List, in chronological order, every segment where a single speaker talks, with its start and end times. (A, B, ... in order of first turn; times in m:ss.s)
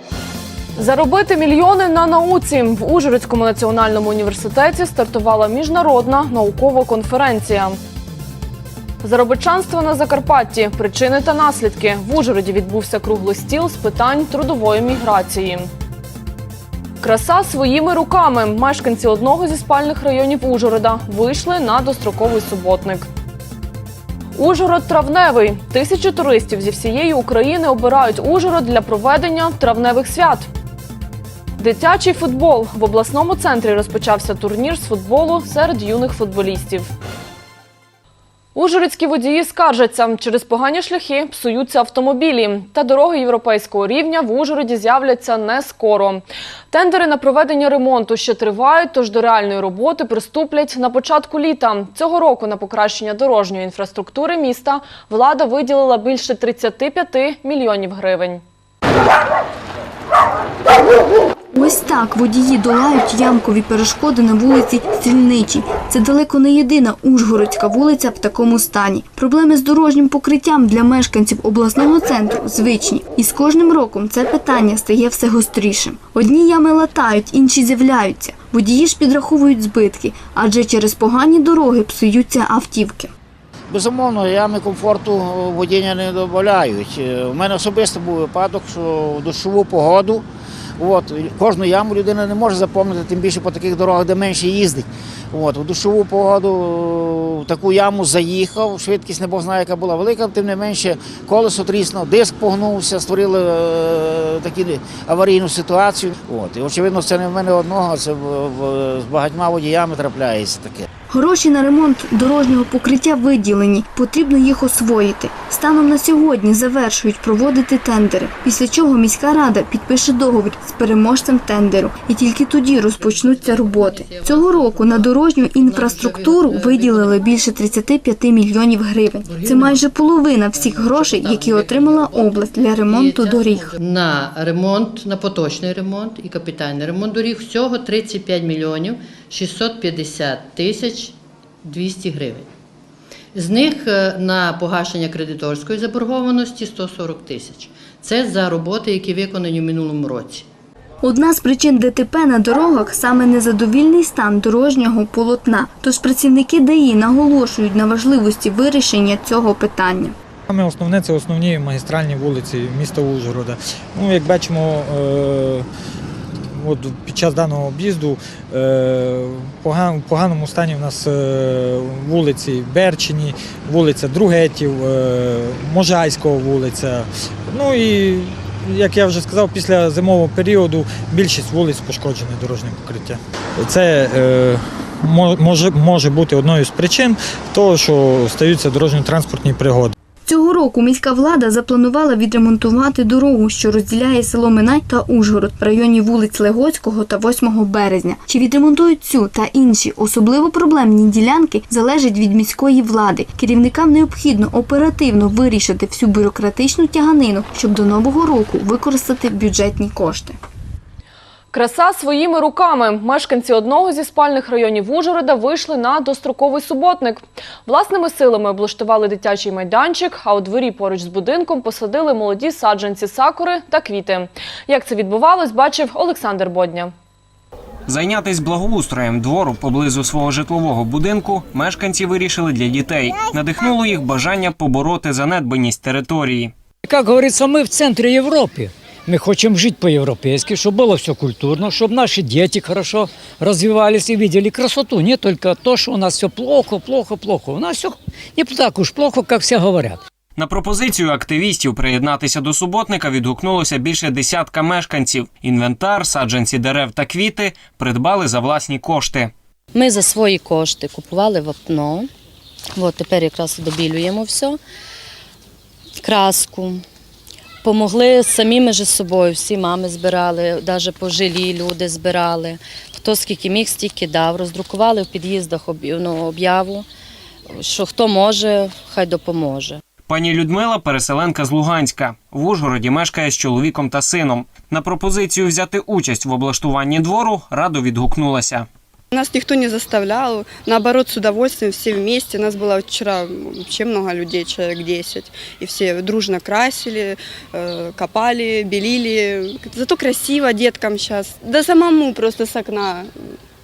0:00.8-0:07.8 A
0:09.0-0:15.7 A
0:17.0-0:23.1 A
0:24.4-0:30.5 A
0:31.6-0:36.9 A
0:38.6-0:58.4 A
1:01.6-1:23.1 B
1:23.7-1:30.2 C
1:30.8-1:50.8 C
1:51.1-2:13.8 B
2:02.7-2:07.2 D
2:09.2-2:09.9 D
2:10.5-2:22.5 D
2:23.3-2:30.5 D
2:31.0-2:40.1 B
2:40.5-2:45.6 E
2:46.6-3:09.9 E
3:10.3-3:30.3 B
3:31.5-3:46.9 A
3:47.9-3:56.5 F
3:56.9-4:10.0 G
4:10.4-4:19.3 F
4:19.7-4:22.1 H
4:22.8-4:24.6 H
4:26.0-4:26.8 H
4:27.6-4:36.8 H
4:37.6-4:39.8 H
4:40.1-4:48.7 F
4:49.1-5:03.1 I